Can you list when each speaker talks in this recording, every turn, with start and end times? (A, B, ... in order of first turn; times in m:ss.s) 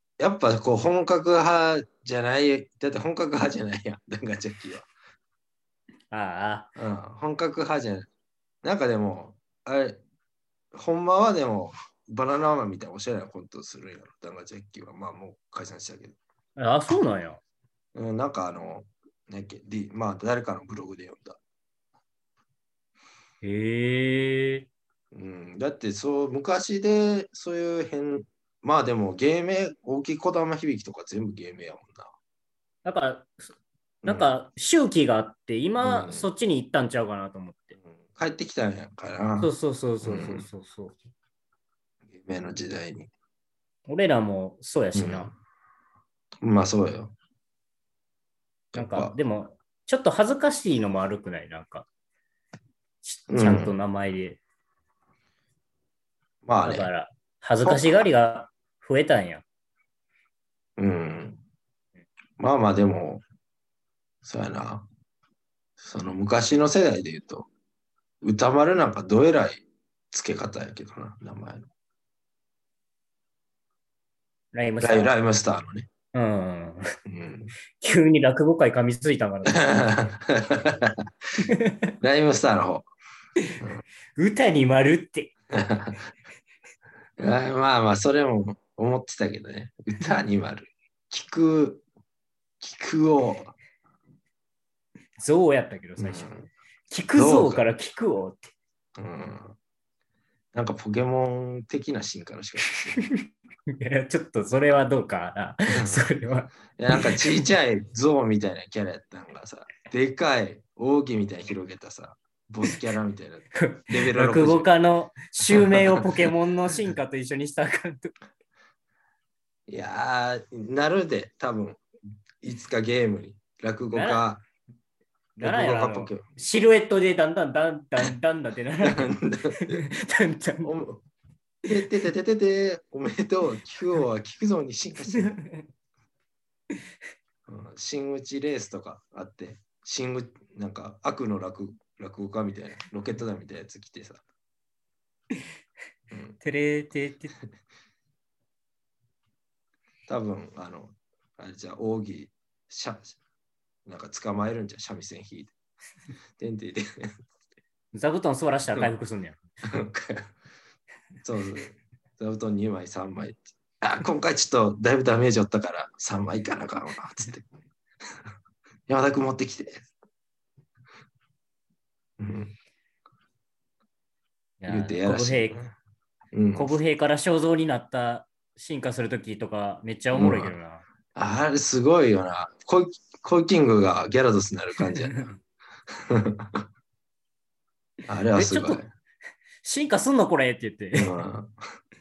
0:00.2-0:04.9 A
0:06.1-0:06.7 B
0:06.8-0:08.1 A
0:08.6-0:10.0 A
0:10.7-0:16.2 A
0:16.6-0:17.4 B
0:18.0-0:21.4 A
0:23.4-0:24.7 B
0:25.1-0:32.1 A
0:32.8-0:33.5 B
0:34.0-0:37.8 B
0:35.8-0:36.3 A
0:38.0-0:39.5 A
0:39.4-0:41.0 B
0:40.0-0:40.5 A
0:42.1-0:43.1 A
0:43.9-0:45.3 B
0:45.0-0:45.4 A
0:46.4-0:47.1 A
0:48.7-0:49.2 A
0:48.7-0:51.9 B
0:53.0-0:54.4 B
0:53.3-0:53.8 A
0:56.4-0:56.9 A
0:56.6-0:59.4 B
0:57.6-0:58.1 A
1:00.8-1:01.4 A
1:02.4-1:03.2 A
1:04.2-1:04.9 A
1:05.8-1:07.5 A
1:08.2-1:11.7 A
1:14.5-1:15.1 B
1:14.8-1:15.9 A
1:16.1-1:16.9 B
1:17.1-1:17.5 A
1:17.8-1:19.7 B
1:19.5-1:21.1 A
1:21.4-1:21.9 B
1:22.0-1:22.9 A
1:24.2-1:25.3 B
1:25.5-1:26.1 A
1:27.2-1:31.8 A
1:32.6-1:33.6 A
1:35.2-1:36.3 B
1:36.0-1:36.5 A
1:36.9-1:38.5 B
1:37.2-1:37.7 A
1:39.0-1:39.6 A
1:40.5-1:43.0 A
1:43.0-1:47.5 B
1:45.7-1:46.0 A
1:46.7-1:54.7 A
1:53.5-1:58.1 B
1:55.4-1:56.0 A
1:59.7-2:01.8 A
2:02.4-2:04.4 A
2:03.9-2:04.2 B
2:05.4-2:10.7 B
2:05.4-2:06.3 A
2:08.8-2:09.8 A
2:10.6-2:11.0 A
2:11.7-2:15.4 A
2:15.1-2:15.7 B
2:17.5-2:24.2 A
2:26.1-2:26.4 A
2:26.4-2:27.3 B
2:30.1-2:33.2 A
2:33.9-2:35.5 A
2:36.4-2:37.1 A
2:37.9-2:39.4 B
2:39.6-2:40.3 A
2:41.2-2:47.5 A
2:48.9-2:49.8 A
2:52.2-2:52.5 A
2:54.6-2:55.6 B
2:54.7-2:55.7 A
2:56.3-2:56.7 A
2:56.6-3:00.8 B
3:00.1-3:00.6 A
3:01.2-3:05.3 A
3:04.8-3:05.3 B
3:06.0-3:06.6 A
3:08.1-3:08.9 A
3:08.3-3:08.8 B
3:09.6-3:11.1 B
3:11.0-3:11.5 A